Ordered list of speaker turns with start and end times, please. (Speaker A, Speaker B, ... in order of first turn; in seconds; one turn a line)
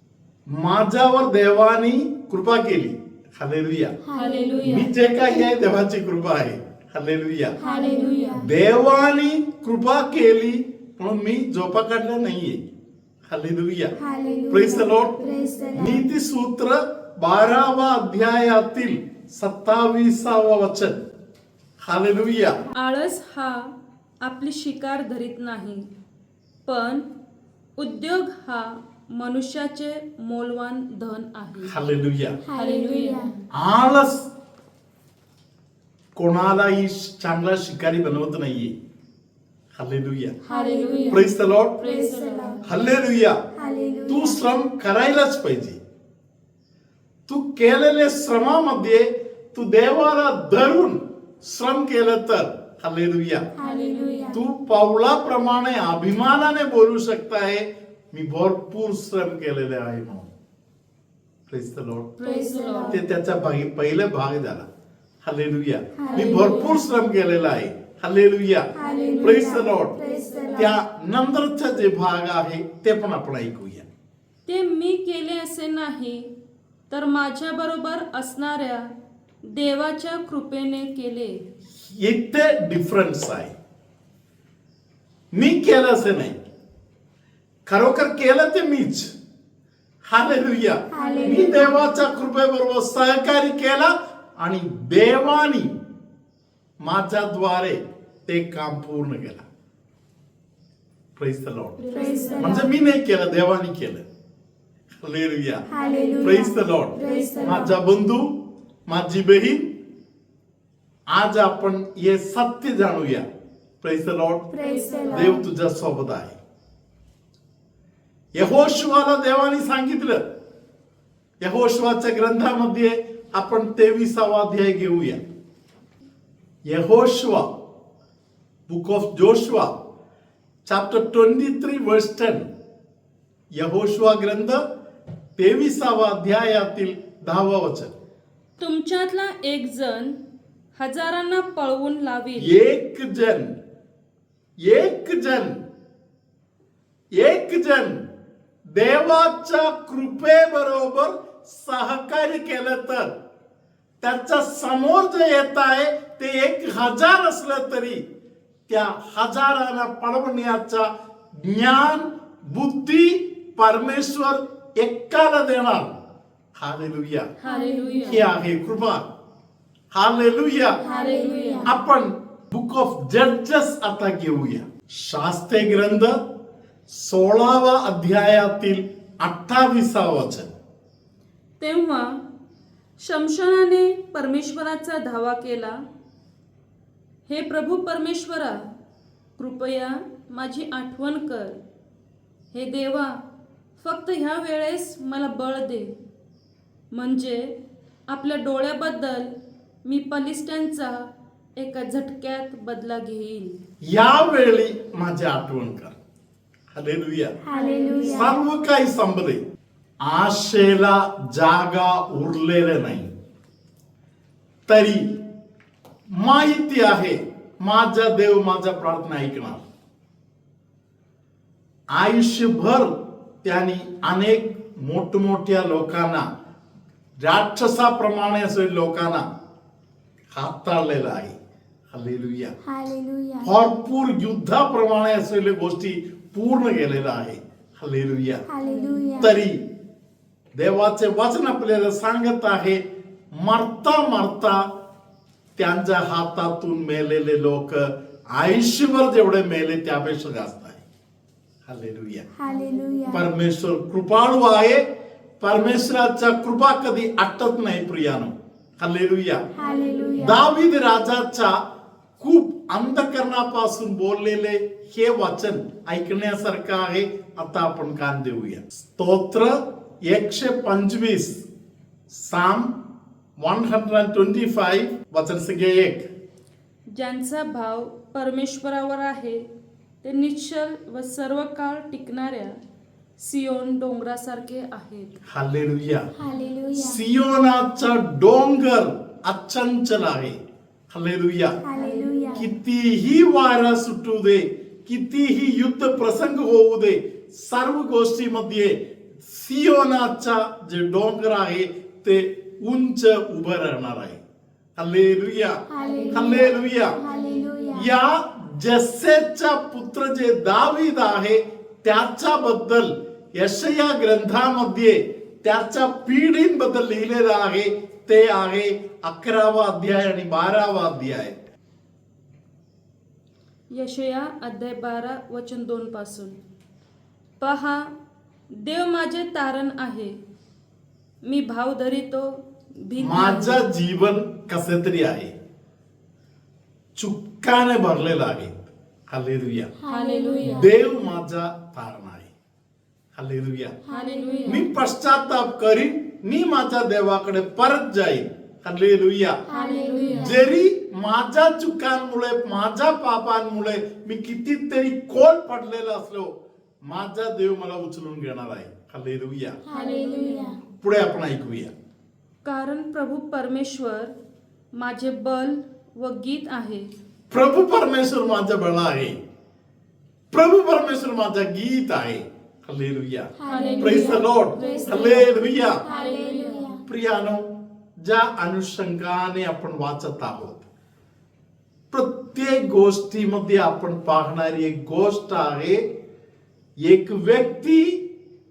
Speaker A: 0.5-4.0
Speaker B: 4.0-4.7
Speaker C: 4.1-4.9
Speaker A: 4.6-7.6
Speaker C: 7.6-8.4
Speaker B: 7.6-8.5
Speaker A: 8.4-12.7
Speaker A: 13.3-13.9
Speaker B: 14.0-16.0
Speaker A: 14.5-15.2
Speaker A: 15.7-21.0
Speaker A: 21.8-22.6
Speaker C: 22.7-25.9
Speaker C: 26.7-27.1
Speaker C: 27.8-31.7
Speaker A: 31.7-32.4
Speaker B: 32.5-33.3
Speaker C: 32.5-33.3
Speaker A: 33.5-34.3
Speaker A: 36.2-38.7
Speaker A: 39.8-40.4
Speaker C: 40.4-41.2
Speaker B: 40.5-41.2
Speaker A: 41.1-41.8
Speaker C: 41.8-42.6
Speaker B: 41.8-42.6
Speaker A: 42.6-43.4
Speaker B: 43.5-44.4
Speaker A: 44.1-45.8
Speaker A: 47.3-53.5
Speaker B: 53.6-54.4
Speaker C: 53.6-54.4
Speaker A: 54.3-60.3
Speaker A: 61.5-62.1
Speaker C: 62.2-63.0
Speaker B: 62.3-63.0
Speaker A: 62.9-64.7
Speaker A: 65.2-68.7
Speaker B: 66.0-66.7
Speaker C: 66.1-66.8
Speaker B: 68.8-70.7
Speaker C: 68.8-70.7
Speaker A: 69.2-69.9
Speaker A: 70.5-73.9
Speaker C: 74.5-76.3
Speaker C: 76.9-78.9
Speaker C: 79.5-81.4
Speaker A: 81.9-83.5
Speaker A: 85.3-86.4
Speaker A: 87.7-89.1
Speaker A: 90.1-95.8
Speaker B: 90.9-91.8
Speaker C: 91.0-91.4
Speaker A: 96.8-99.4
Speaker A: 101.2-101.8
Speaker C: 101.9-102.5
Speaker B: 101.9-102.7
Speaker A: 102.4-104.0
Speaker A: 105.0-105.6
Speaker B: 105.7-107.8
Speaker A: 106.2-108.4
Speaker C: 107.0-107.5
Speaker A: 108.9-109.7
Speaker A: 111.1-113.3
Speaker A: 113.8-114.5
Speaker B: 114.5-115.4
Speaker C: 114.6-115.3
Speaker A: 115.1-116.4
Speaker A: 118.3-120.2
Speaker A: 121.4-125.2
Speaker A: 126.7-127.5
Speaker A: 128.7-129.8
Speaker A: 130.7-132.5
Speaker A: 133.6-134.6
Speaker A: 135.4-137.9
Speaker C: 138.6-140.2
Speaker C: 140.8-142.5
Speaker A: 142.4-143.5
Speaker A: 144.6-145.6
Speaker A: 147.1-148.0
Speaker A: 148.7-153.1
Speaker A: 154.0-158.1
Speaker A: 158.7-165.9
Speaker A: 166.6-167.3
Speaker C: 167.4-168.3
Speaker B: 167.5-168.2
Speaker A: 168.1-169.0
Speaker A: 169.9-170.8
Speaker C: 170.8-171.7
Speaker B: 170.8-171.7
Speaker A: 171.7-176.2
Speaker A: 176.9-180.5
Speaker C: 181.6-182.2
Speaker C: 183.0-185.8
Speaker C: 187.3-188.6
Speaker C: 189.4-191.6
Speaker C: 192.5-193.2
Speaker C: 193.8-195.9
Speaker C: 196.9-197.5
Speaker C: 198.1-199.3
Speaker C: 199.8-203.6
Speaker A: 203.8-206.0
Speaker A: 206.7-207.4
Speaker B: 207.4-208.4
Speaker C: 207.5-208.3
Speaker A: 208.0-209.4
Speaker A: 210.0-213.1
Speaker A: 214.7-215.2
Speaker A: 216.1-219.6
Speaker A: 221.9-222.9
Speaker A: 223.4-226.2
Speaker A: 227.2-229.2
Speaker A: 230.3-231.4
Speaker A: 231.9-232.5
Speaker B: 232.7-233.5
Speaker A: 233.4-238.4
Speaker B: 238.5-239.4
Speaker A: 239.2-239.6
Speaker A: 240.6-242.8
Speaker A: 243.3-244.6
Speaker A: 245.6-250.8
Speaker A: 251.7-252.2
Speaker B: 252.3-253.2
Speaker A: 253.1-254.8
Speaker A: 255.4-259.4
Speaker B: 259.6-260.4
Speaker A: 260.2-261.5
Speaker A: 262.2-269.6
Speaker A: 270.1-271.5
Speaker A: 272.1-272.8
Speaker A: 273.4-276.1
Speaker C: 276.9-279.5
Speaker C: 280.0-282.6
Speaker C: 283.2-285.2
Speaker A: 285.3-286.1
Speaker B: 286.2-287.0
Speaker A: 286.7-290.4
Speaker A: 290.9-291.6
Speaker B: 291.6-292.5
Speaker C: 291.8-292.4
Speaker A: 292.4-304.2
Speaker A: 304.8-307.0
Speaker B: 305.7-307.9
Speaker A: 307.7-321.4
Speaker C: 323.7-326.4
Speaker C: 327.4-327.9
Speaker C: 328.6-330.2
Speaker C: 331.2-333.6
Speaker A: 333.0-335.3
Speaker A: 337.0-339.7
Speaker B: 339.8-340.5
Speaker C: 339.9-340.7
Speaker A: 340.4-342.3
Speaker A: 343.1-343.8
Speaker B: 343.9-344.6
Speaker C: 343.9-344.6
Speaker A: 344.5-349.4
Speaker B: 349.5-350.3
Speaker C: 349.5-350.4
Speaker A: 350.1-356.3
Speaker A: 356.9-359.6
Speaker B: 359.6-360.6
Speaker C: 359.7-360.6
Speaker A: 360.7-361.7
Speaker C: 362.4-364.1
Speaker C: 364.8-366.9
Speaker A: 367.3-369.2
Speaker A: 370.3-375.8
Speaker B: 373.4-375.2
Speaker C: 373.4-375.3
Speaker B: 375.8-376.8
Speaker C: 375.9-376.8
Speaker A: 376.9-377.4
Speaker A: 378.0-380.6
Speaker A: 381.9-385.8
Speaker A: 386.9-388.1